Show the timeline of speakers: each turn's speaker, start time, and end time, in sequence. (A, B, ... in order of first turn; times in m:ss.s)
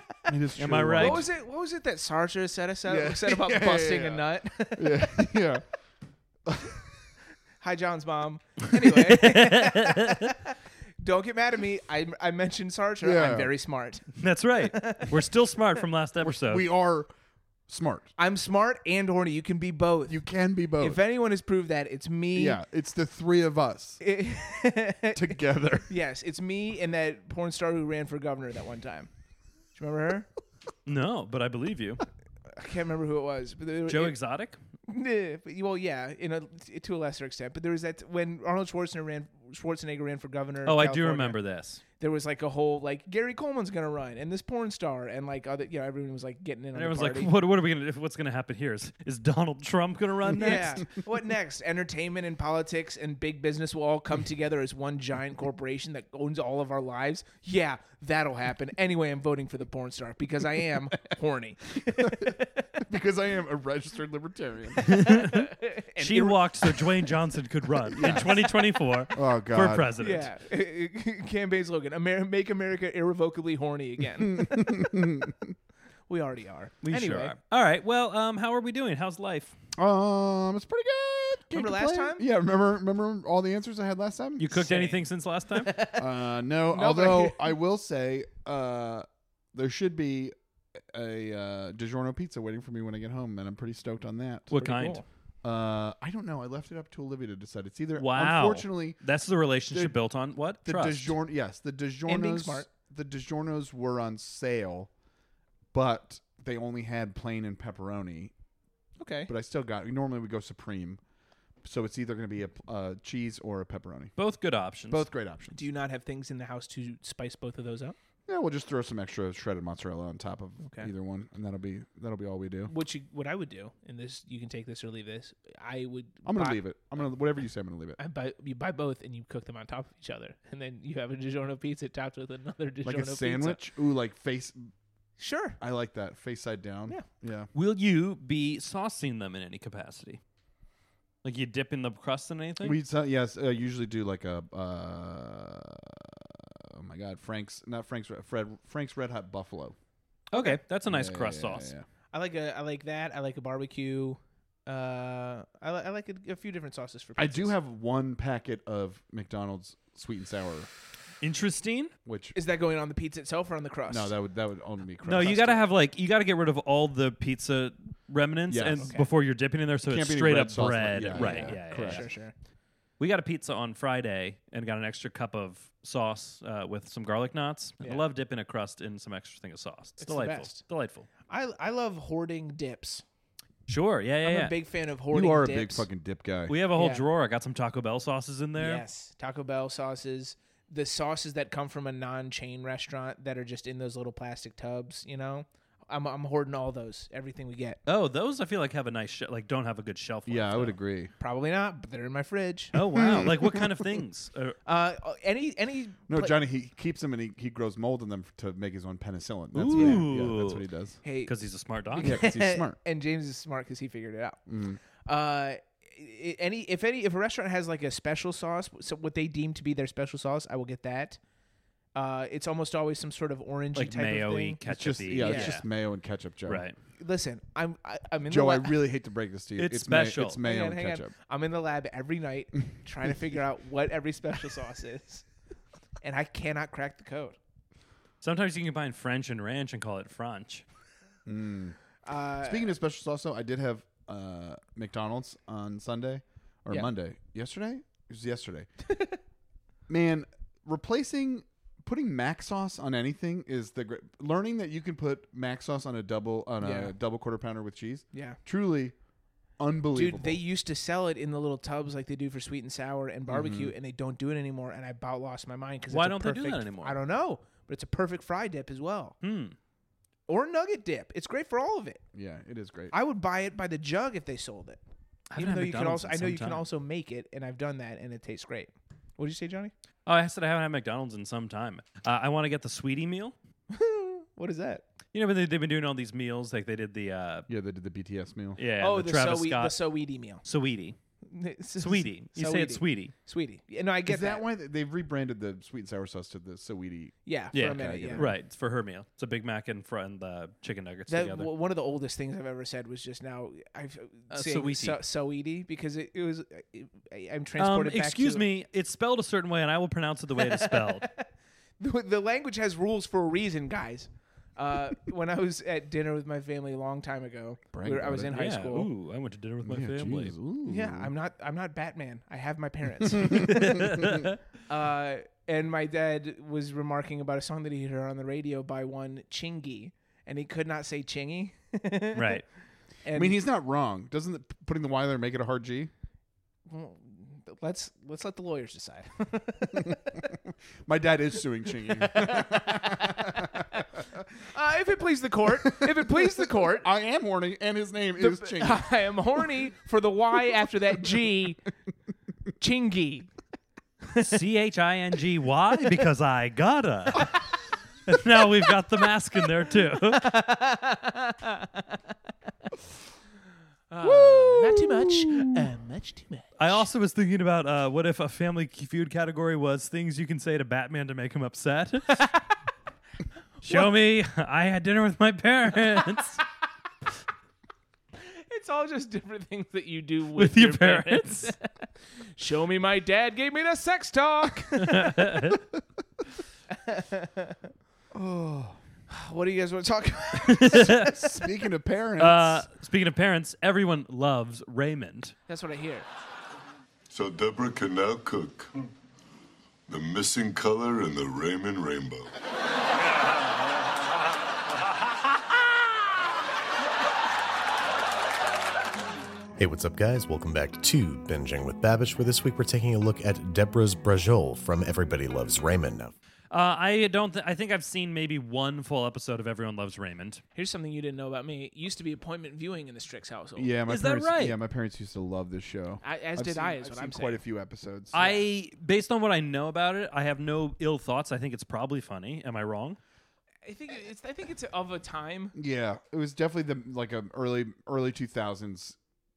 0:00.3-0:01.2 A
0:00.6-0:01.2 B
0:01.0-0:05.3 C
0:02.9-0:05.6 A
0:06.4-0:06.8 A
0:07.6-0:15.2 C
0:08.9-0:10.3 B
0:13.0-0:13.5 A
0:14.2-0:16.7 B
0:16.2-0:17.1 A
0:17.7-0:18.1 A
0:18.2-0:20.2 C
0:20.1-0:21.0 A
0:20.8-0:22.6 C
0:22.3-0:24.0 A
0:24.0-0:29.1 C
0:25.1-0:25.9 A
0:29.7-0:30.3 C
0:30.8-0:32.0 B
0:32.5-0:34.2 C
0:33.9-0:34.6 B
0:34.9-0:41.4 C
0:40.6-0:41.8 B
0:42.0-0:47.3 C
0:46.7-0:50.8 B
0:50.4-1:02.7 C
1:01.9-1:05.1 A
1:04.8-1:07.1 C
1:04.8-1:10.3 B
1:07.8-1:08.3 A
1:07.9-1:08.7 C
1:09.1-1:09.9 A
1:10.0-1:14.9 C
1:14.2-1:15.5 A
1:16.1-1:17.3 C
1:16.8-1:19.6 B
1:19.8-1:24.6 A
1:21.5-1:22.2 C
1:24.4-1:25.8 B
1:24.5-1:25.0 C
1:25.5-1:26.0 C
1:25.9-1:30.3 A
1:26.7-1:27.5 C
1:30.9-1:34.5 A
1:34.5-1:35.0 B
1:34.5-1:35.0 C
1:35.4-1:39.0 A
1:38.0-1:41.1 B
1:39.7-1:39.9 A
1:40.6-1:44.9 A
1:42.1-1:42.7 C
1:45.7-1:48.3 A
1:49.0-1:49.3 C
1:49.3-1:51.0 A
1:51.6-1:54.1 A
1:54.2-1:55.0 B
1:54.9-1:55.6 A
1:55.5-1:58.0 C
1:58.3-2:02.7 A
2:00.6-2:00.9 C
2:02.7-2:06.6 C
2:06.2-2:08.0 A
2:08.0-2:13.6 C
2:12.8-2:14.7 A
2:15.2-2:15.6 C
2:15.6-2:17.5 A
2:17.5-2:20.2 B
2:21.2-2:22.8 B
2:22.6-2:29.8 A
2:30.3-2:31.7 B
2:30.3-2:30.6 C
2:30.8-2:31.8 A
2:32.1-2:37.5 C
2:37.2-2:40.7 A
2:41.2-2:41.9 B
2:42.0-2:42.3 A
2:42.3-2:44.1 C
2:43.9-2:45.6 A
2:45.0-2:52.1 B
2:48.5-2:48.8 A
2:48.8-2:49.1 C
2:49.9-2:52.1 A
2:51.1-2:52.3 C
2:53.0-3:01.1 B
3:00.0-3:00.6 C
3:01.3-3:03.0 C
3:03.7-3:04.5 B
3:04.2-3:05.8 C
3:05.1-3:06.5 A
3:06.5-3:08.8 B
3:06.7-3:07.0 C
3:08.6-3:17.8 C
3:17.8-3:20.8 B
3:20.2-3:21.1 A
3:21.2-3:22.8 C
3:22.7-3:24.6 B
3:22.9-3:23.7 A
3:24.6-3:26.4 C
3:26.1-3:31.0 A
3:29.5-3:30.6 B
3:29.7-3:30.0 C
3:31.0-3:31.3 C
3:31.2-3:32.2 B
3:32.0-3:32.8 A
3:32.0-3:34.4 C
3:34.5-3:34.8 A
3:35.0-3:41.2 C
3:41.9-3:44.6 C
3:43.7-3:45.6 B
3:44.6-3:46.7 A
3:45.2-3:45.6 C
3:46.5-3:46.8 B
3:47.0-3:48.8 C
3:48.3-3:51.1 A
3:49.6-3:50.4 B
3:50.4-3:55.2 C
3:56.0-3:57.4 C
3:58.2-4:00.6 B
4:01.2-4:01.8 A
4:02.0-4:02.7 C
4:02.4-4:08.7 A
4:08.9-4:09.2 C
4:09.9-4:18.9 A
4:16.6-4:16.9 C
4:18.1-4:18.4 C
4:19.6-4:20.4 A
4:19.9-4:29.1 C
4:23.3-4:23.7 A
4:25.9-4:27.0 B
4:29.2-4:29.6 B
4:30.3-4:32.0 C
4:32.1-4:32.9 A
4:32.9-4:34.8 C
4:35.3-4:36.6 B
4:35.4-4:39.7 C
4:40.0-4:43.3 B
4:43.7-4:44.8 C
4:45.1-4:47.5 B
4:47.5-4:48.6 A
4:48.6-4:49.8 B
4:48.8-4:50.4 C
4:50.4-4:51.0 B
4:51.2-4:54.4 C
4:51.8-4:53.1 B
4:54.0-4:58.3 A
4:57.2-4:58.3 C
4:57.5-5:01.5 B
5:01.1-5:08.4 C
5:04.3-5:05.0 B
5:07.6-5:11.1 B
5:10.4-5:18.9 C
5:17.7-5:18.3 A
5:18.3-5:20.3 B
5:19.6-5:21.1 A
5:20.6-5:24.0 C
5:23.4-5:24.3 B
5:24.7-5:32.4 C
5:32.1-5:32.4 B
5:33.0-5:33.4 C
5:33.1-5:35.9 A
5:36.7-5:40.2 C
5:39.8-5:44.2 A
5:41.8-5:43.9 C
5:44.4-5:46.9 C
5:45.6-5:48.8 A
5:48.2-5:51.6 C
5:52.6-5:53.3 C
5:54.0-5:54.4 C
5:54.2-5:57.5 B
5:58.1-6:00.3 B
6:00.0-6:01.9 C
6:03.9-6:06.8 C
6:04.0-6:05.5 A
6:06.6-6:12.3 B
6:13.6-6:16.4 B
6:18.2-6:21.7 C
6:20.4-6:21.5 B
6:22.3-6:25.4 C
6:24.8-6:25.6 B
6:26.7-6:27.6 C
6:28.1-6:28.8 A
6:29.1-6:31.3 C
6:30.4-6:31.1 B
6:30.9-6:32.6 A
6:32.2-6:35.3 B
6:35.5-6:36.1 C
6:37.1-6:38.7 D
6:39.9-6:42.3 D
6:49.6-6:56.1 E
6:56.5-7:00.4 B
7:00.5-7:03.7 C
7:03.6-7:08.2 A
7:03.9-7:04.6 B
7:06.0-7:07.4 C
7:08.1-7:13.0 B
7:08.2-7:08.4 C
7:13.6-7:15.5 C
7:15.5-7:19.0 A